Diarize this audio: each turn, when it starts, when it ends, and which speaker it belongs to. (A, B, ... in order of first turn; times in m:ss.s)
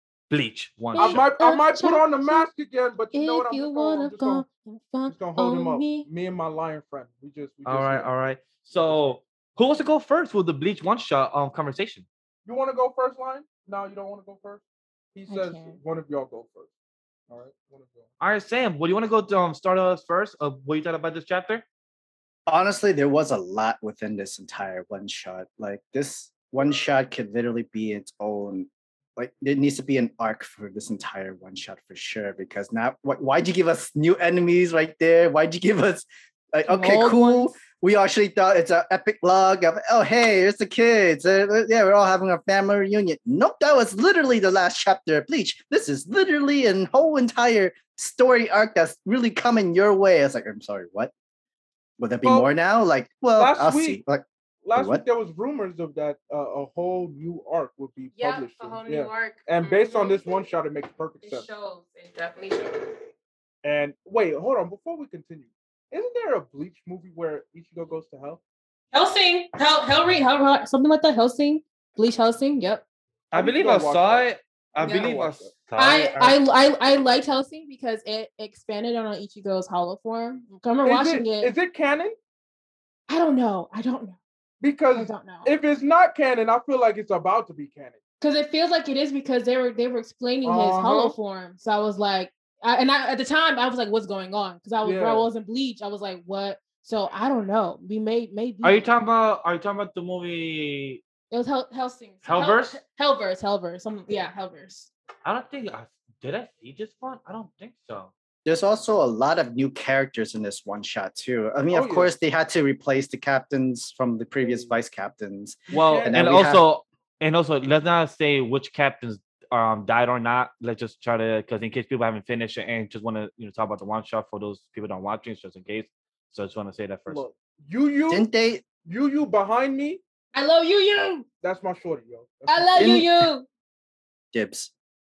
0:00.3-0:01.2 A
0:00.9-0:02.5 B
0:01.0-0:04.4 C
0:03.1-0:06.1 B
0:05.1-0:08.1 C
0:07.6-0:12.1 A
0:08.8-0:09.2 C
0:12.4-0:16.7 C
0:15.3-0:15.8 B
0:17.3-0:18.1 C
0:18.2-0:21.6 A
0:22.5-0:51.1 D
0:36.7-0:37.6 B
0:52.0-0:55.0 D
0:52.2-0:52.5 C
0:53.4-0:54.0 C
0:54.6-1:01.5 C
0:58.2-1:00.2 B
1:01.2-1:03.1 B
1:03.6-1:08.4 C
1:08.9-1:12.8 B
1:13.3-1:16.0 C
1:13.3-1:16.4 A
1:14.8-1:15.1 B
1:15.8-1:21.5 B
1:20.8-1:22.2 C
1:23.1-1:24.2 B
1:24.6-1:28.0 C
1:24.9-1:25.5 B
1:28.2-1:38.9 B
1:30.4-1:31.2 C
1:34.8-1:35.3 C
1:38.6-1:41.0 A
1:41.3-1:44.9 B
1:42.2-1:42.8 A
1:45.2-1:48.1 A
1:48.4-1:56.6 D
1:51.7-1:52.1 C
1:54.4-1:54.7 C
1:55.7-1:56.2 C
1:55.7-2:07.2 A
2:07.1-2:08.3 C
2:08.1-2:08.6 D
2:08.8-2:10.0 C
2:10.3-2:11.3 B
2:11.4-2:13.0 C
2:12.5-2:13.5 B
2:12.8-2:13.2 D
2:14.3-2:14.7 D